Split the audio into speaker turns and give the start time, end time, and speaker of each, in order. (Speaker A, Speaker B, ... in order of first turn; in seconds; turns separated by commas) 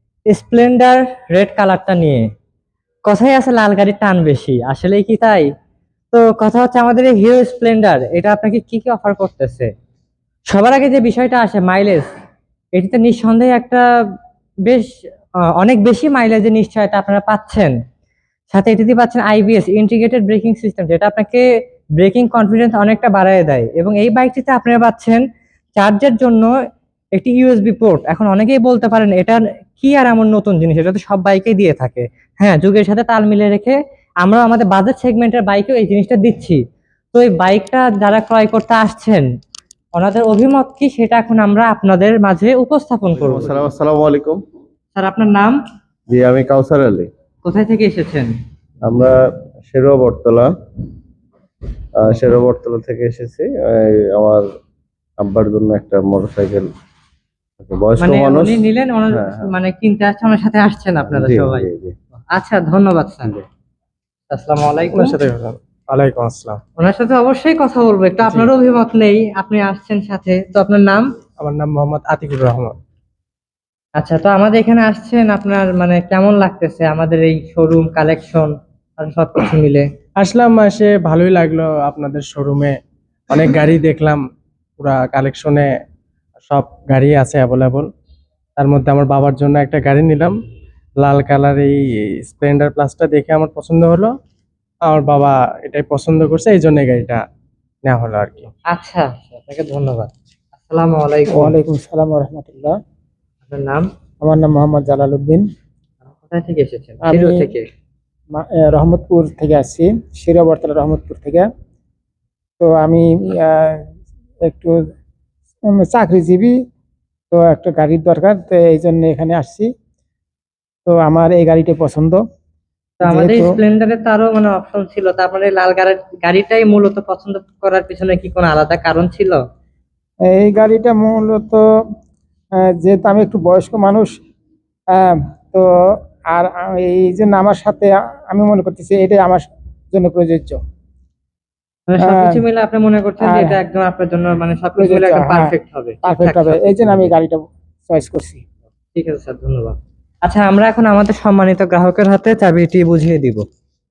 Speaker A: 0.3-2.2, Speaker A: 3.0-5.5, Speaker A: 6.1-9.7, Speaker A: 10.5-12.1, Speaker A: 12.7-13.8, Speaker A: 15.6-17.7, Speaker A: 18.5-21.4, Speaker A: 22.0-25.2, Speaker A: 25.8-26.5, Speaker A: 27.1-36.6, Speaker A: 37.1-39.3, Speaker A: 40.0-43.6, Speaker B: 43.2-44.4, Speaker A: 45.0-45.6, Speaker B: 46.1-47.1, Speaker A: 47.4-48.3, Speaker B: 48.8-49.2, Speaker B: 49.7-50.5, Speaker B: 52.0-54.4, Speaker B: 55.2-56.7, Speaker B: 57.6-59.5, Speaker A: 58.0-61.7, Speaker B: 61.1-61.9, Speaker A: 62.3-63.5, Speaker A: 64.3-65.1, Speaker C: 64.9-66.6, Speaker A: 66.8-71.1, Speaker C: 68.2-68.5, Speaker C: 71.4-72.7, Speaker A: 74.0-79.8, Speaker C: 80.2-82.8, Speaker C: 83.3-84.2, Speaker C: 84.8-85.7, Speaker C: 86.4-87.9, Speaker C: 88.6-90.3, Speaker C: 91.0-94.1, Speaker C: 94.9-97.2, Speaker C: 97.8-98.5, Speaker A: 98.7-101.5, Speaker D: 101.3-102.7, Speaker A: 103.4-103.8, Speaker D: 104.2-105.4, Speaker A: 106.2-107.7, Speaker D: 107.0-107.5, Speaker D: 108.3-111.5, Speaker D: 112.6-113.8, Speaker D: 114.4-114.8, Speaker D: 115.7-116.5, Speaker D: 117.3-119.7, Speaker D: 120.8-122.2, Speaker A: 123.0-129.4, Speaker D: 123.0-123.5, Speaker D: 130.3-131.6, Speaker D: 132.7-134.2, Speaker D: 134.9-135.7, Speaker D: 136.3-140.6, Speaker A: 141.9-147.1, Speaker D: 142.0-142.4, Speaker D: 143.2-143.6, Speaker D: 144.8-145.5, Speaker D: 146.0-148.4, Speaker A: 148.9-153.4